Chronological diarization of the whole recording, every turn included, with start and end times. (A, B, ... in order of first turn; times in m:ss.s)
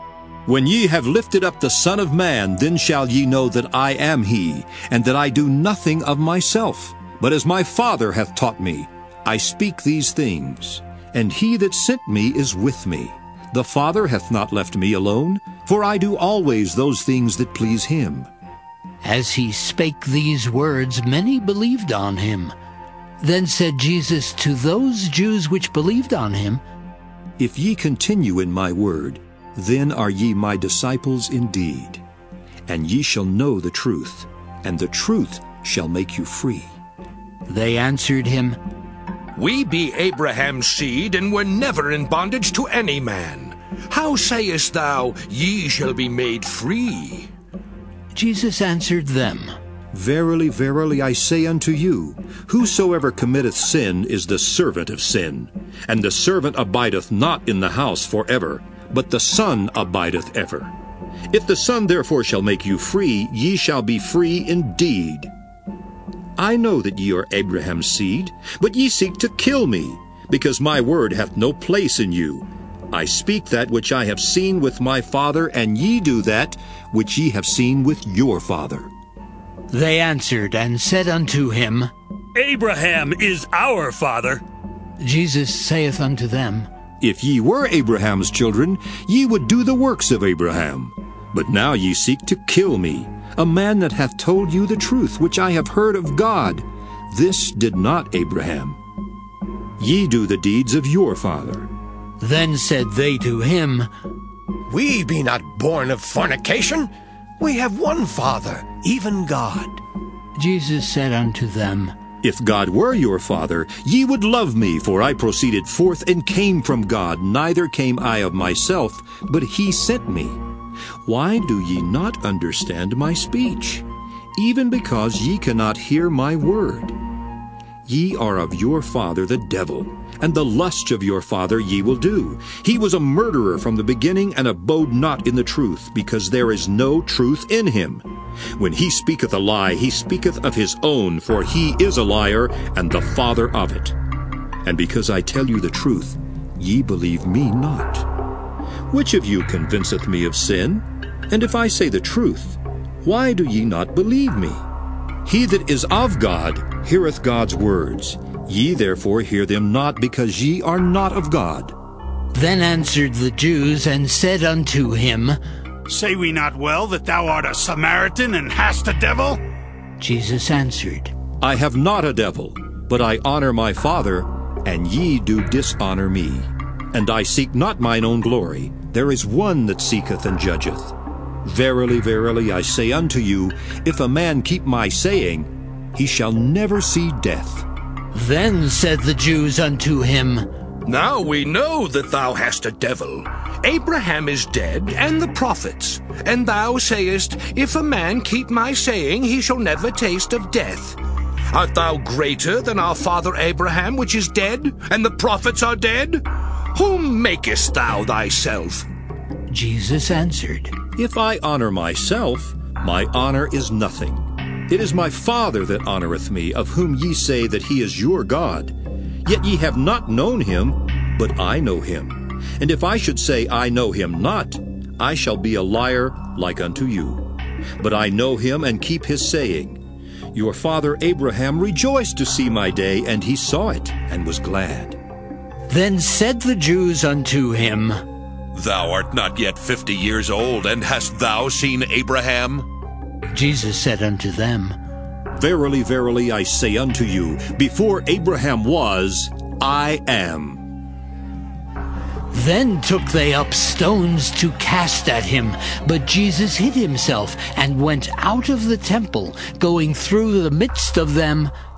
0:00.5-0:18.3 A
0:19.0-0:22.5 B
0:23.2-0:26.6 B
0:27.4-0:32.0 A
0:32.7-0:36.8 A
0:37.5-0:38.6 B
0:39.4-0:47.3 C
0:48.1-0:49.5 B
0:49.9-1:00.7 A
1:01.3-1:05.3 A
1:06.4-1:18.9 A
1:19.7-1:21.9 B
1:25.0-1:26.7 B
1:27.0-1:38.8 A
1:39.8-1:41.7 A
1:42.2-1:43.9 B
1:44.7-1:49.8 D
1:50.4-1:52.0 B
1:52.2-2:00.4 A
2:01.1-2:03.8 A
2:04.4-2:07.0 A
2:07.8-2:18.0 A
2:18.6-2:24.0 A
2:24.6-2:28.1 A
2:28.9-2:34.6 A
2:35.3-2:41.8 A
2:42.3-2:45.4 B
2:45.9-2:49.4 E
2:50.0-2:51.1 B
2:51.4-3:00.9 A
3:01.4-3:07.7 A
3:08.1-3:10.5 B
3:10.9-3:21.0 C
3:21.5-3:26.2 C
3:26.8-3:28.9 C
3:29.5-3:30.8 B
3:31.0-3:38.8 A
3:39.3-3:47.2 A
3:47.8-3:49.8 A
3:50.3-3:55.0 A
3:55.7-3:58.0 B
3:58.5-4:02.7 F
4:03.3-4:04.8 B
4:05.4-4:10.6 A
4:12.3-4:21.5 B